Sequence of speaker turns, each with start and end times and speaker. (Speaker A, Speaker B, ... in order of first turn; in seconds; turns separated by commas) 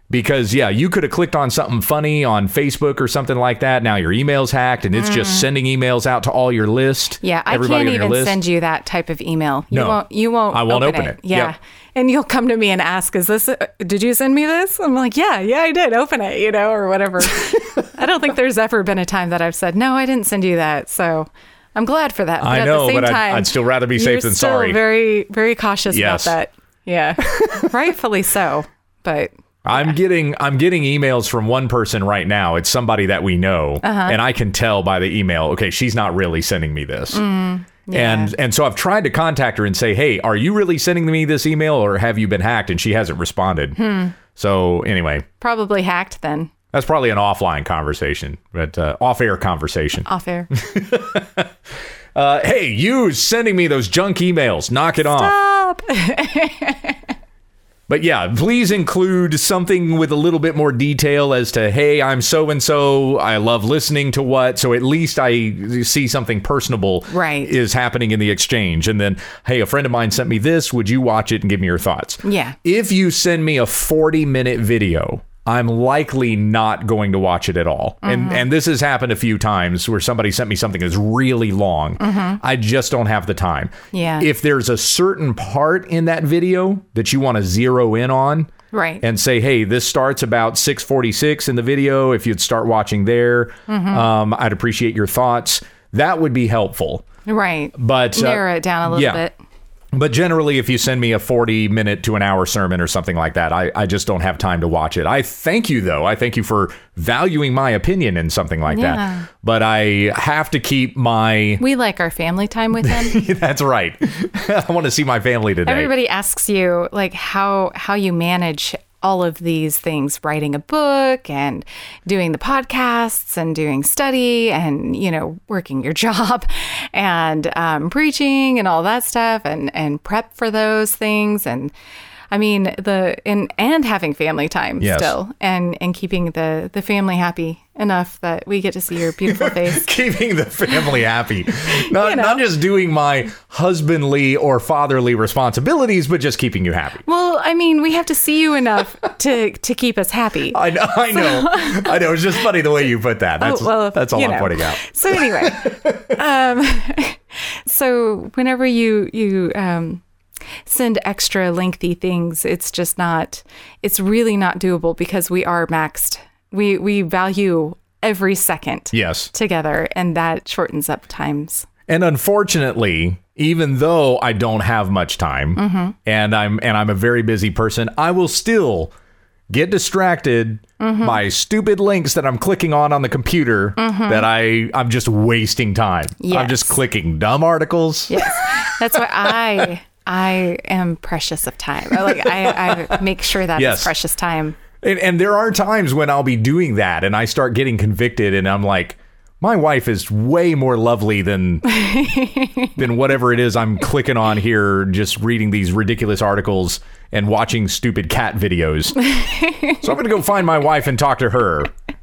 Speaker A: 0.1-8.4, Speaker B: 5.0-5.5, Speaker B: 7.2-29.9, Speaker A: 9.7-11.5, Speaker A: 17.6-17.9, Speaker A: 22.4-24.8, Speaker A: 25.9-26.4, Speaker A: 27.2-27.7, Speaker A: 29.6-37.2, Speaker B: 33.8-34.2, Speaker B: 37.1-38.3, Speaker A: 37.9-45.3, Speaker B: 43.8-44.1, Speaker B: 45.4-46.5, Speaker A: 46.7-51.5, Speaker B: 50.0-50.5, Speaker A: 52.1-55.3, Speaker B: 55.0-57.0, Speaker A: 57.9-97.1, Speaker B: 67.1-67.5, Speaker B: 72.2-72.6, Speaker B: 78.0-78.5, Speaker B: 82.0-82.4, Speaker B: 83.9-84.3, Speaker B: 88.7-89.0, Speaker B: 93.7-94.1, Speaker B: 97.3-99.3, Speaker A: 97.8-99.2, Speaker A: 99.9-111.6, Speaker B: 108.7-109.3, Speaker B: 111.6-113.2, Speaker A: 112.8-115.9, Speaker B: 115.7-131.7, Speaker B: 132.3-139.9, Speaker A: 134.8-135.2, Speaker A: 139.2-147.1, Speaker B: 140.7-141.0, Speaker B: 141.6-142.4, Speaker B: 147.1-152.4, Speaker A: 150.5-156.2, Speaker B: 153.4-160.0, Speaker B: 160.7-171.7, Speaker A: 168.9-169.3, Speaker A: 171.9-178.9, Speaker B: 175.6-175.9, Speaker A: 179.5-189.7, Speaker B: 180.8-181.2, Speaker B: 183.8-184.3, Speaker B: 186.2-186.8, Speaker B: 188.1-194.6, Speaker A: 192.0-193.0, Speaker A: 193.6-193.9, Speaker A: 194.8-201.8, Speaker B: 201.7-202.7, Speaker A: 202.8-209.0, Speaker B: 209.0-209.8, Speaker A: 209.8-211.7